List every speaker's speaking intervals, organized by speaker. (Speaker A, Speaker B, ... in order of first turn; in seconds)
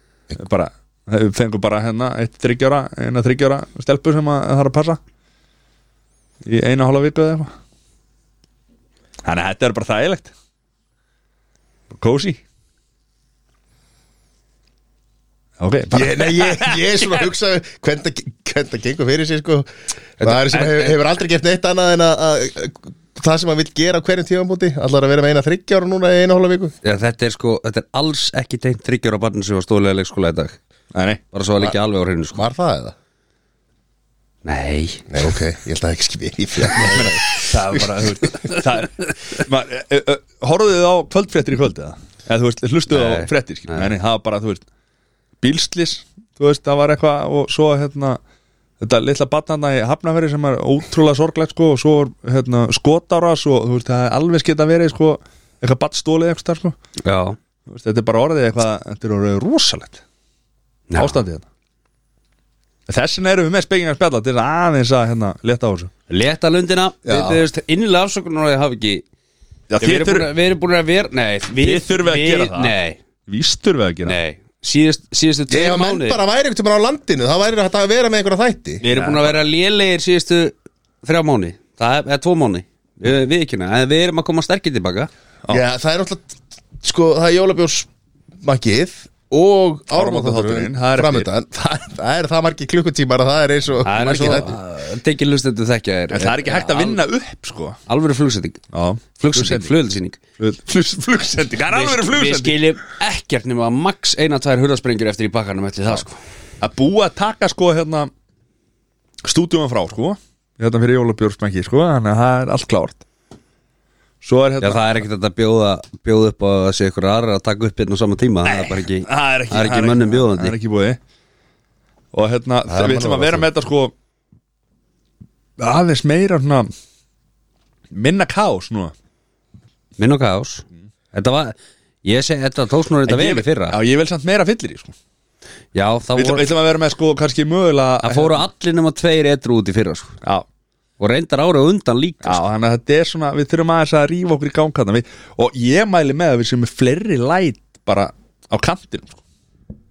Speaker A: 0.3-5.0, 6.4-7.5, 9.2-10.3, 11.9-12.4, 15.6-16.8, 30.9-31.2, 36.8-44.6, 45.4-48.2, 48.8-56.7, 57.7-60.0, 60.9-61.5, 62.9-65.9, 69.7-70.3, 71.5-72.7, 73.3-74.2, 78.8-79.4, 89.9-91.3, 94.1-94.5, 96.1-97.8, 98.7-99.7, 100.4-102.8, 106.6-108.1, 109.2-113.0, 114.2-115.0, 118.4-121.0, 122.1-123.9, 125.6-126.7, 127.9-128.9, 133.1-134.9, 136.2-138.4, 142.2-149.2
Speaker B: 15.9-26.7, 32.3-33.0, 35.1-37.4, 67.0-67.4, 75.5-78.8, 85.5-87.9, 88.4-94.5, 122.7-123.5
Speaker C: 20.2-21.0, 26.8-30.6, 31.3-32.4, 34.4-35.1, 37.5-38.6, 42.9-43.9, 57.0-57.4, 60.9-61.2, 66.1-69.0, 69.8-73.0, 74.0-76.2, 78.8-85.1, 93.8-97.0, 97.9-98.6, 99.2-100.2, 101.7-106.2, 114.6-120.5, 130.0-133.8, 135.7-136.5, 138.0-140.2, 141.0-142.4